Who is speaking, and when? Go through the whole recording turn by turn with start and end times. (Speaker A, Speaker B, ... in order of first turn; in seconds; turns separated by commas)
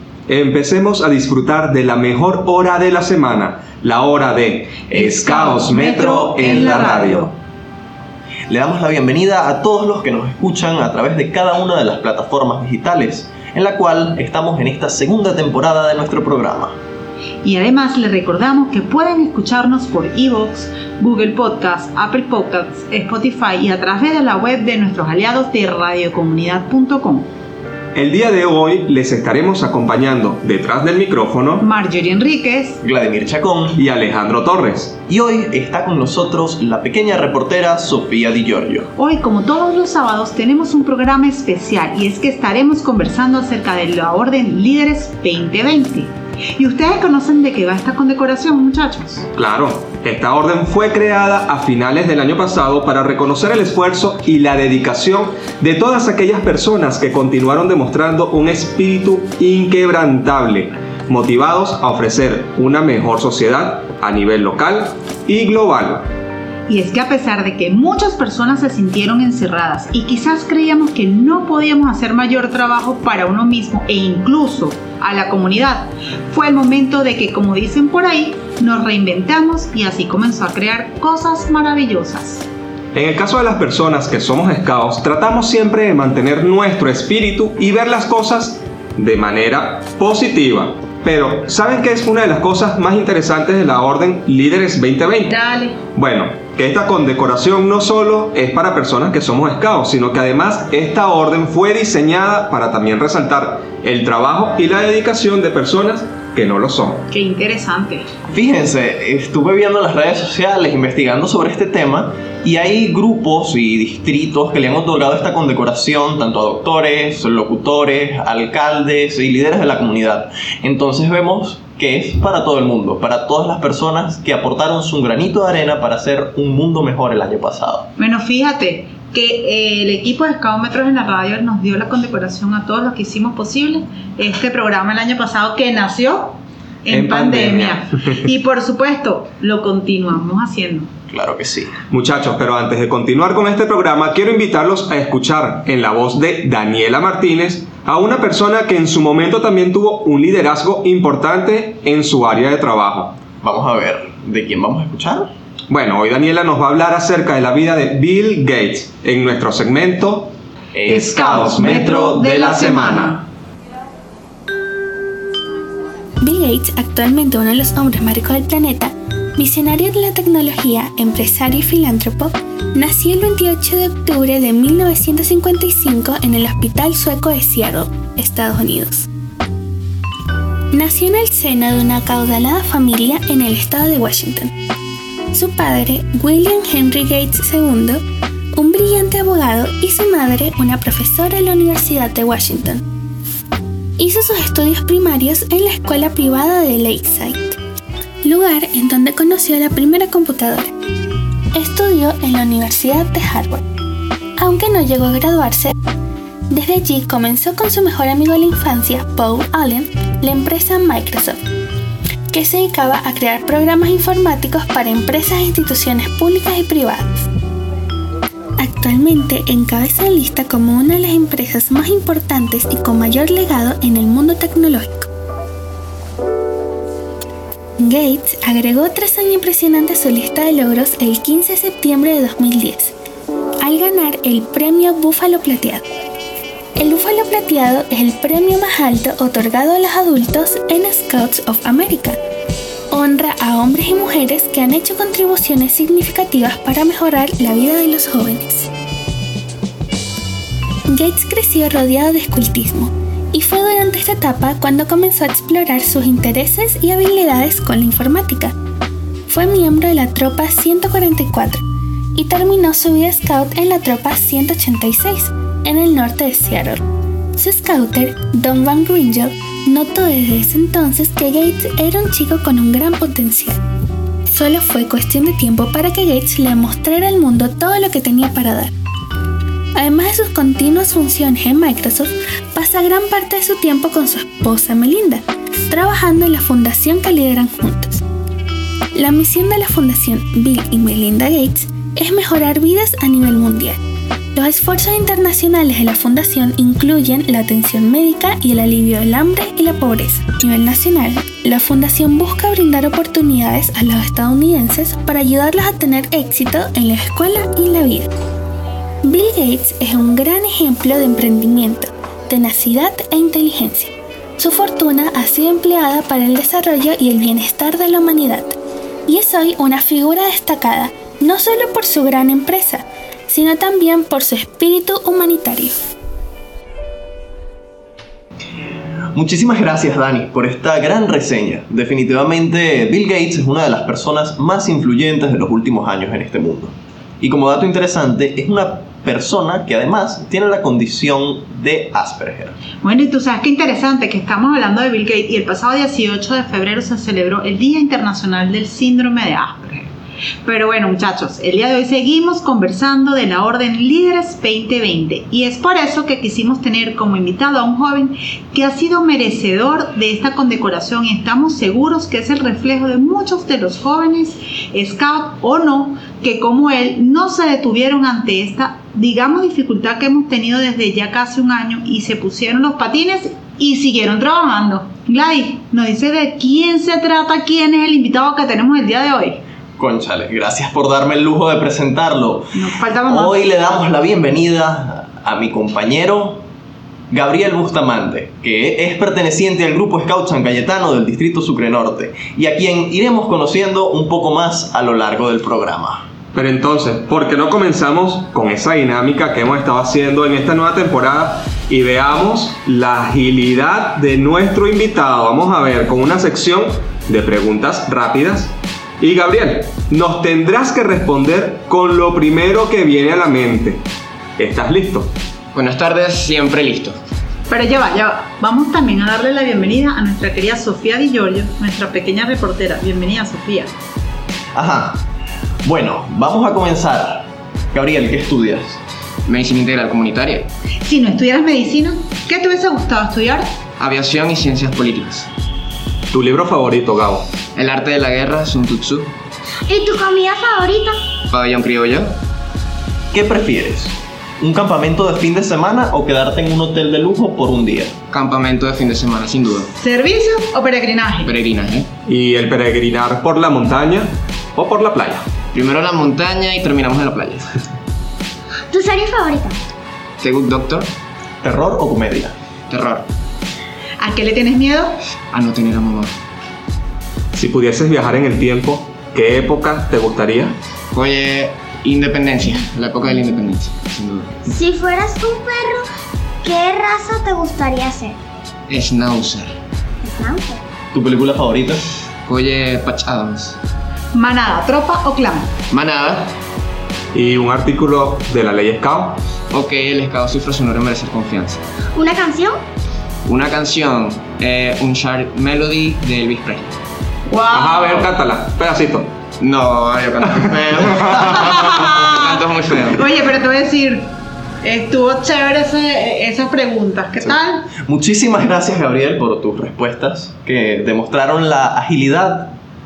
Speaker A: 0.3-7.3, Speaker B: 4.9-7.3, Speaker C: 6.5-6.9, Speaker C: 8.5-16.8, Speaker B: 17.4-27.3, Speaker A: 27.9-31.6, Speaker B: 31.6-32.8, Speaker C: 32.8-33.8, Speaker A: 33.8-35.0, Speaker C: 35.1-38.9, Speaker B: 39.0-49.3, Speaker A: 49.4-66.1, Speaker B: 66.7-82.5, Speaker A: 82.9-95.3, Speaker B: 95.3-95.8, Speaker A: 96.0-107.1, Speaker B: 107.1-108.1, Speaker C: 108.3-127.9, Speaker B: 128.0-140.9, Speaker A: 136.9-138.3, Speaker C: 141.1-141.7, Speaker A: 141.9-153.2, Speaker C: 153.4-155.3, Speaker A: 155.7-160.3, Speaker C: 160.7-161.8, Speaker A: 160.9-163.2, Speaker B: 160.9-163.2, Speaker D: 166.2-179.1, Speaker D: 180.7-184.5, Speaker D: 185.3-188.0, Speaker D: 188.6-192.8, Speaker D: 194.0-197.6, Speaker D: 198.2-200.7, Speaker D: 201.6-203.6, Speaker D: 204.4-205.8, Speaker D: 206.5-211.4, Speaker D: 212.3-217.3, Speaker D: 218.6-225.1, Speaker D: 227.8-232.9, Speaker D: 233.6-235.9, Speaker D: 236.8-242.2, Speaker D: 242.9-248.7, Speaker D: 250.9-258.6, Speaker D: 259.3-261.6, Speaker D: 262.1-266.9, Speaker D: 267.4-273.6, Speaker D: 274.3-278.7, Speaker D: 279.8-288.0, Speaker D: 288.9-293.8, Speaker D: 294.4-308.1, Speaker D: 309.0-318.6, Speaker D: 319.1-325.8, Speaker C: 329.1-342.6, Speaker B: 342.8-349.9, Speaker B: 350.4-379.4, Speaker C: 379.8-382.6, Speaker B: 382.5-383.4, Speaker C: 383.1-386.4, Speaker C: 387.1-396.0, Speaker A: 396.3-413.8, Speaker A: 414.4-415.1, Speaker E: 415.5-417.0, Speaker B: 417.5-423.7, Speaker C: 424.6-425.0, Speaker C: 425.6-428.8, Speaker E: 429.3-430.5, Speaker B: 430.9-433.5, Speaker E: 433.8-435.3, Speaker A: 436.1-437.2, Speaker E: 437.6-439.1, Speaker F: 439.7-441.0, Speaker E: 441.3-442.2, Speaker C: 443.1-447.9, Speaker E: 448.1-449.7, Speaker B: 449.8-451.3, Speaker E: 451.2-451.9, Speaker A: 452.1-455.2, Speaker E: 455.5-457.5, Speaker F: 458.7-459.6, Speaker E: 460.2-460.9, Speaker C: 461.4-462.3, Speaker E: 462.7-463.1, Speaker B: 464.0-464.9, Speaker E: 465.3-466.1, Speaker A: 467.3-470.6, Speaker E: 470.9-474.4, Speaker F: 474.5-475.9, Speaker F: 476.4-478.2, Speaker E: 478.7-479.6, Speaker F: 480.0-480.6, Speaker C: 480.9-481.8, Speaker E: 482.3-483.6, Speaker B: 484.1-485.5, Speaker E: 485.7-486.3, Speaker A: 487.1-489.2, Speaker E: 489.5-491.6, Speaker F: 491.9-492.6, Speaker E: 493.3-496.8, Speaker B: 497.3-498.1, Speaker A: 497.5-499.1, Speaker E: 499.4-503.1, Speaker B: 501.4-502.2, Speaker B: 502.9-504.1, Speaker B: 504.6-507.7, Speaker C: 507.2-512.5